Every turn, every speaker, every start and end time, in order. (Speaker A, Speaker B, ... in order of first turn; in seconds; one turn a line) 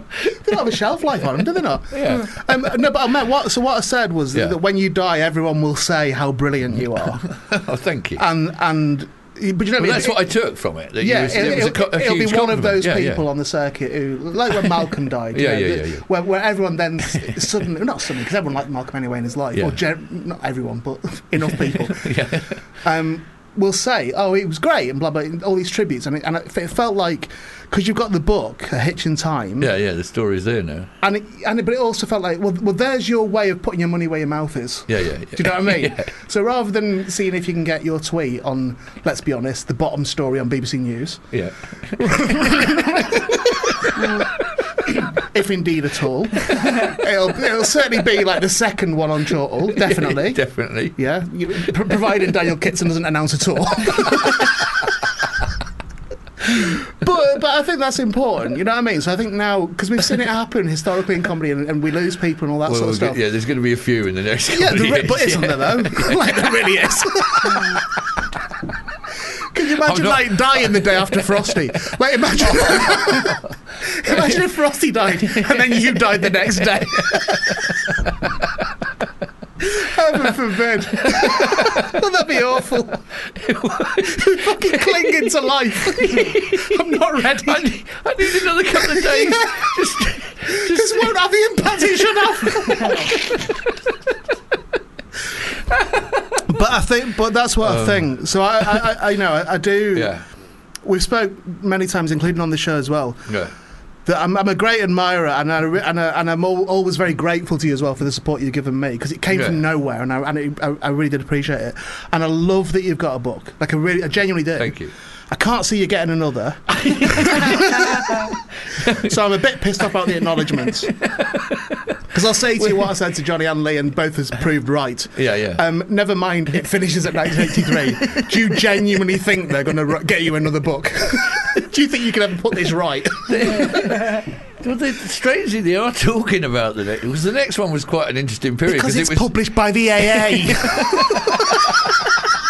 Speaker A: 0.2-7.3
Speaker B: 1.9-2.4
Speaker B: 7.3-8.2
Speaker A: 8.2-10.3
Speaker B: 9.8-13.2
Speaker A: 11.0-29.7
Speaker B: 15.3-16.1
Speaker B: 17.1-17.4
Speaker B: 19.5-19.8
Speaker B: 21.5-22.6
Speaker B: 29.6-30.9
Speaker A: 31.0-41.3
Speaker B: 34.9-36.1
Speaker B: 41.3-42.7
Speaker A: 41.9-44.3
Speaker B: 43.8-44.3
Speaker A: 44.9-54.8
Speaker B: 49.8-51.0
Speaker B: 54.0-54.5
Speaker A: 56.4-63.2
Speaker B: 62.7-66.5
Speaker A: 64.5-67.9
Speaker A: 69.5-77.9
Speaker B: 69.8-71.0
Speaker B: 72.7-73.4
Speaker B: 75.3-75.8
Speaker B: 77.1-77.9
Speaker A: 79.6-83.0
Speaker B: 81.0-81.9
Speaker B: 83.3-86.9
Speaker A: 84.0-87.7
Speaker B: 87.4-91.1
Speaker A: 88.2-89.8
Speaker A: 90.5-93.1
Speaker B: 92.5-93.5
Speaker A: 96.4-100.2
Speaker B: 97.6-98.1
Speaker B: 99.9-100.2
Speaker A: 100.8-103.4
Speaker B: 103.3-103.5
Speaker A: 104.0-118.3
Speaker B: 109.3-109.6
Speaker B: 114.6-114.9
Speaker B: 116.7-119.1
Speaker A: 118.9-120.9
Speaker B: 120.6-121.8
Speaker A: 122.1-133.9
Speaker B: 125.2-125.6
Speaker B: 127.5-128.3
Speaker B: 133.3-139.3
Speaker A: 138.7-142.1
Speaker B: 140.2-141.6